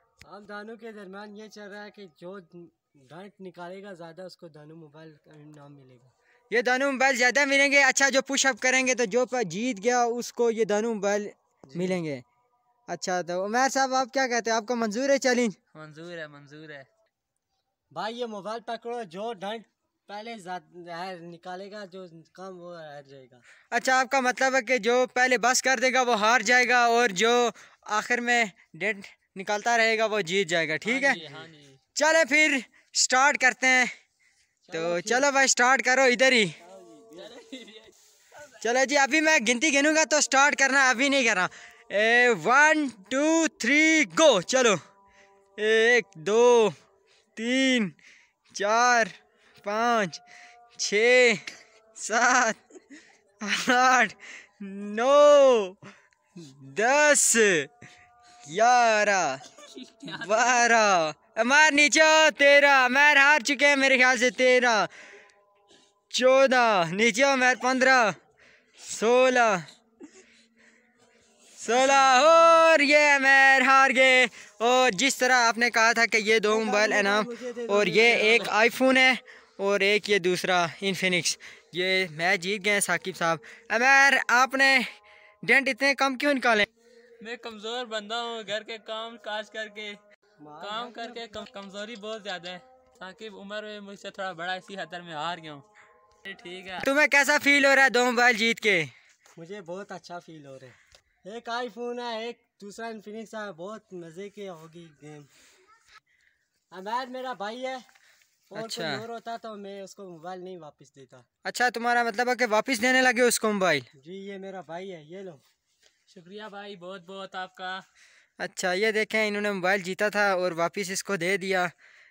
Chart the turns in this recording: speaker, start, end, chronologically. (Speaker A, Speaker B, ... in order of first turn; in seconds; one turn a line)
Speaker A: 0.2-6.1
Speaker B: 6.5-12.2
Speaker A: 11.7-12.0
Speaker B: 12.9-15.6
Speaker C: 15.7-16.9
Speaker A: 17.9-23.4
Speaker B: 23.7-31.2
Speaker C: 30.8-31.8
Speaker A: 31.1-31.5
Speaker B: 32.0-33.9
Speaker A: 34.6-35.3
Speaker B: 34.7-36.6
Speaker A: 36.6-37.4
Speaker C: 37.2-37.9
Speaker B: 38.6-44.8
Speaker B: 45.6-46.8
Speaker B: 47.4-48.0
Speaker B: 48.5-50.2
Speaker B: 50.8-51.4
Speaker B: 52.0-52.6
Speaker B: 53.4-55.8
Speaker B: 56.4-57.7
Speaker B: 58.5-59.4
Speaker C: 59.6-60.6
Speaker B: 60.1-64.9
Speaker B: 66.1-68.2
Speaker B: 68.8-69.6
Speaker B: 71.6-84.9
Speaker A: 71.7-72.6
Speaker A: 76.5-78.5
Speaker B: 85.4-86.7
Speaker C: 87.2-90.0
Speaker A: 90.4-91.5
Speaker C: 90.6-95.7
Speaker C: 96.2-96.9
Speaker B: 96.8-98.9
Speaker A: 99.4-105.3
Speaker A: 106.7-107.8
Speaker A: 108.5-111.2
Speaker B: 108.5-109.0
Speaker B: 111.5-113.9
Speaker A: 114.0-115.4
Speaker C: 116.1-117.8
Speaker B: 118.4-121.7